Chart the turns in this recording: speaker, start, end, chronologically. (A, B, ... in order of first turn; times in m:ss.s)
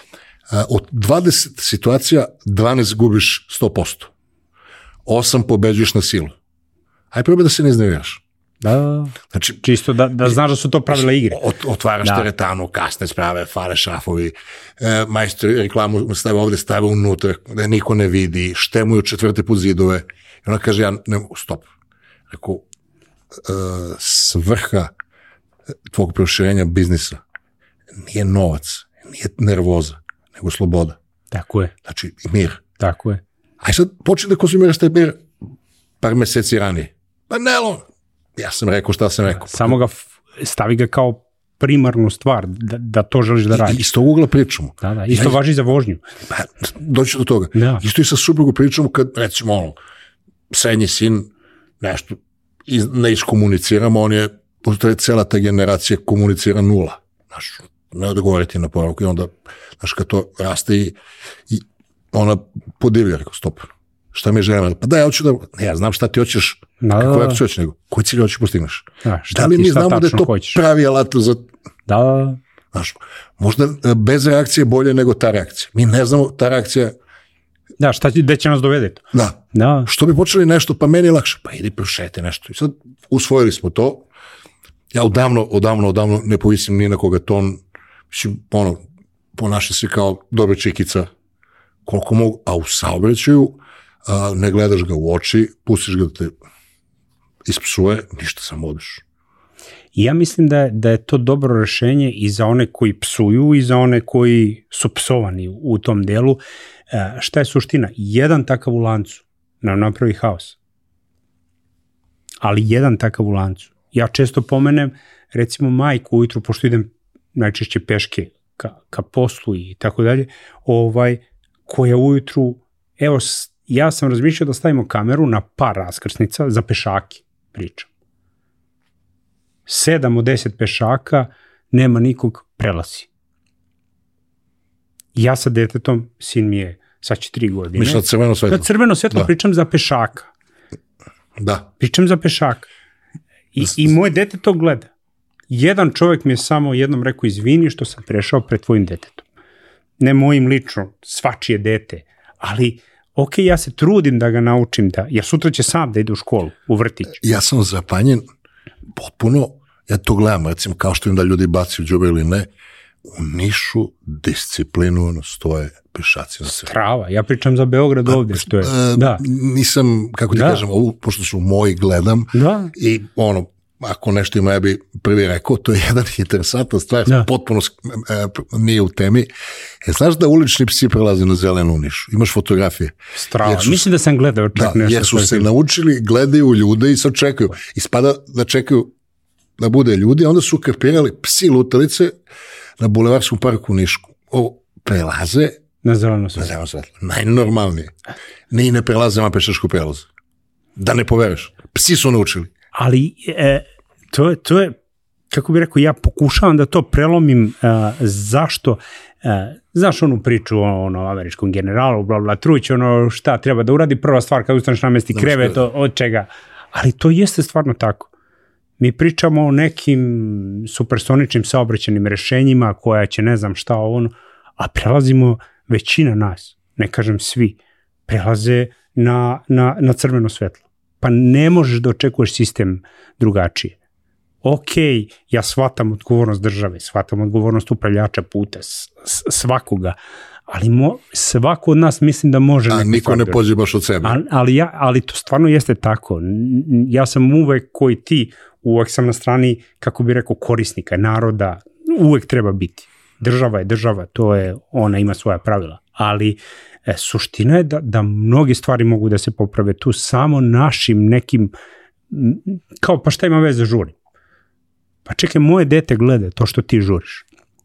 0:00.5-0:04.1 A
0:05.1-0:06.4 A
0:07.1-0:08.2 A
0:08.6-0:11.4 B
0:09.3-0:09.6 A
0:10.9-0:21.7 A
0:22.3-0:22.6 A
0:23.4-0:24.9 A
0:25.9-0:27.2 A
0:28.0-0:31.0 A
0:31.3-0:31.7 B
0:31.8-0:32.6 A
0:32.8-0:33.2 B
0:33.6-0:35.2 A
0:36.0-0:39.8 A
0:39.3-0:43.8 B
0:43.5-0:45.4 A
0:44.8-0:46.0 B
0:46.3-0:49.8 A
0:47.5-0:47.8 B
0:50.5-0:51.3 A
0:51.8-1:01.0 A
1:01.5-1:11.5 A
1:06.8-1:07.4 B
1:09.0-1:10.6 B
1:11.9-1:12.4 B
1:12.7-1:16.9 A
1:17.8-1:19.9 B
1:19.1-1:24.0 A
1:24.9-1:28.8 A
1:29.4-1:31.1 A
1:31.9-1:36.3 A
1:37.5-1:39.0 A
1:40.0-1:46.4 B
1:46.9-1:50.6 B
1:52.4-2:07.9 B
2:09.7-2:13.1 B
2:15.2-2:20.3 B
2:17.8-2:19.3 A
2:21.4-2:21.7 A
2:21.8-2:22.7 B
2:23.5-2:24.9 B
2:25.5-2:29.2 B
2:30.0-2:37.2 B
2:37.2-2:38.2 A
2:38.9-2:42.5 A
2:43.0-2:46.7 A
2:46.5-2:49.2 B
2:48.1-2:59.3 A
2:50.3-2:50.6 B
2:52.3-2:52.7 B
2:59.8-3:03.9 A
3:03.2-3:05.5 B
3:04.6-3:08.9 A
3:09.6-3:12.2 A
3:12.8-3:15.6 A
3:15.8-3:16.5 B
3:16.4-3:17.9 A
3:18.5-3:20.1 A
3:20.8-3:22.5 A
3:22.7-3:24.8 B
3:25.3-3:38.1 B
3:35.1-3:35.6 A
3:38.8-3:53.8 B
3:54.4-4:00.0 B
4:00.5-4:03.4 B
4:02.7-4:04.2 A
4:04.0-4:21.5 B
4:22.1-4:24.0 B
4:25.1-4:27.2 B